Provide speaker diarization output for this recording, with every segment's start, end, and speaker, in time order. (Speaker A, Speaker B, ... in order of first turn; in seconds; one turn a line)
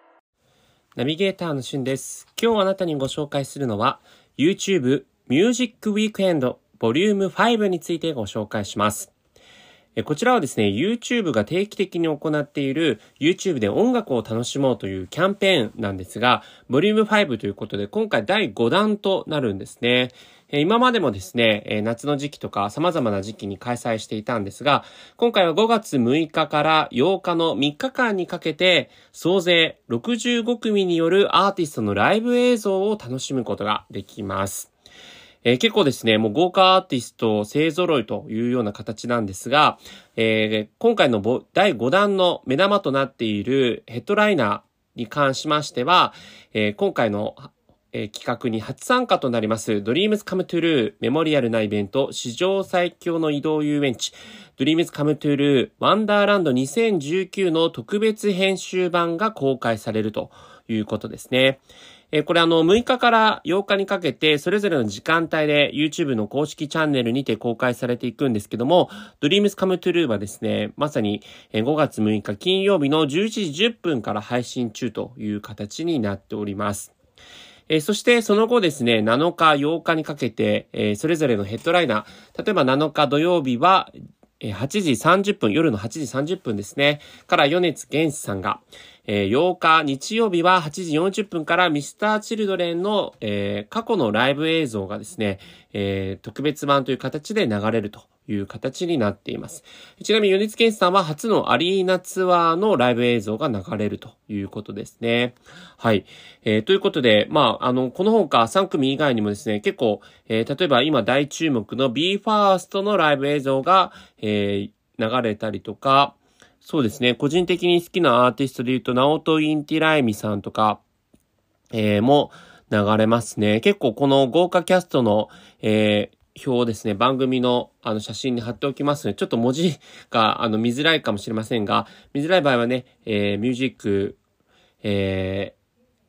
Speaker A: 0.9-9.1
Speaker A: 10.0-34.7
Speaker A: 35.4-76.9
Speaker A: 77.7-120.8
Speaker A: 121.7-134.2
Speaker A: 134.8-135.6